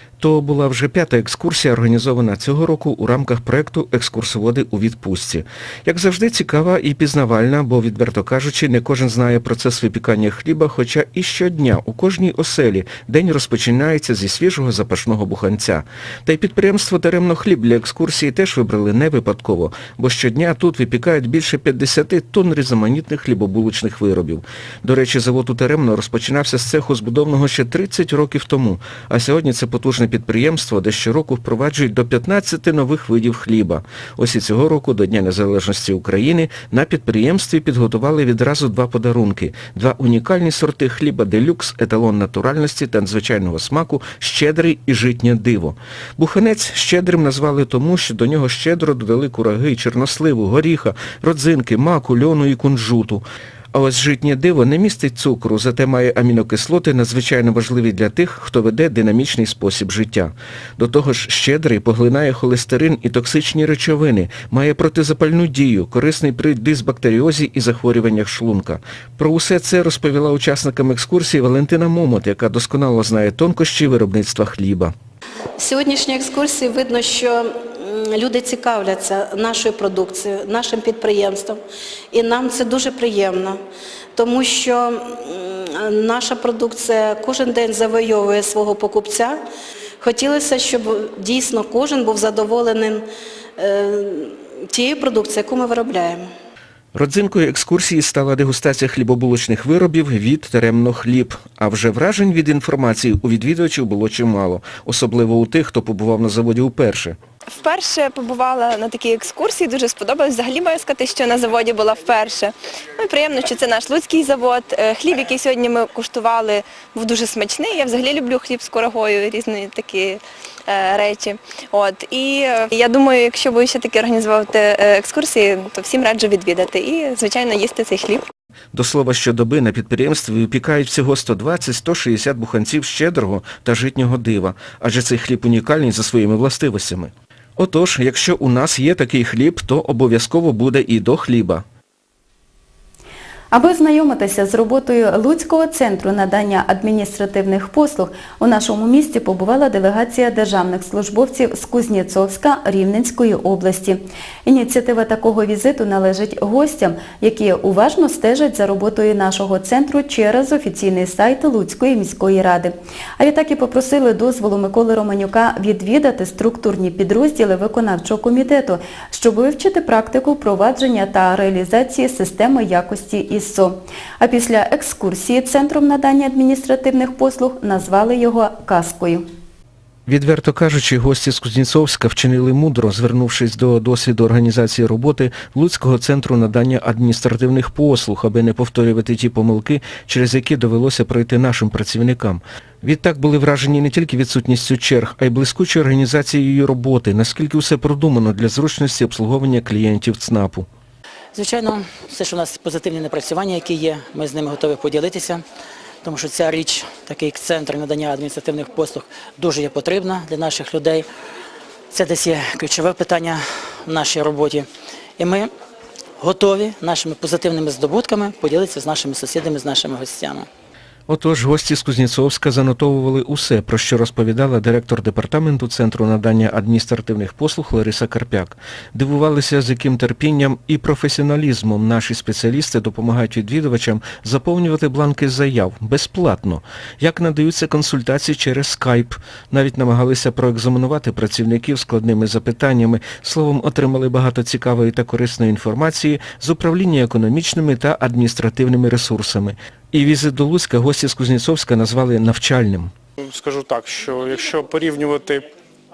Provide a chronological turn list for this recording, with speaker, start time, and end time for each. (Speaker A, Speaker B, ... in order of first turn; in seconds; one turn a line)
Speaker A: 0.2-74.9
Speaker B: 75.6-77.4
Speaker B: 78.2-81.6
Speaker B: 82.1-83.6
Speaker B: 84.2-84.9
Speaker B: 85.9-89.4
Speaker B: 90.0-93.0
Speaker B: 93.6-96.2
Speaker A: 97.0-107.2
Speaker C: 107.6-112.5
Speaker C: 113.0-120.2
Speaker C: 120.8-128.2
Speaker A: 128.7-141.6
Speaker D: 143.5-179.2
Speaker A: 180.1-200.7
Speaker E: 201.3-205.4
Speaker E: 206.0-211.1
Speaker E: 211.9-214.7
Speaker E: 215.2-215.5
Speaker E: 216.2-220.5
Speaker A: 221.1-252.9
Speaker F: 253.3-255.5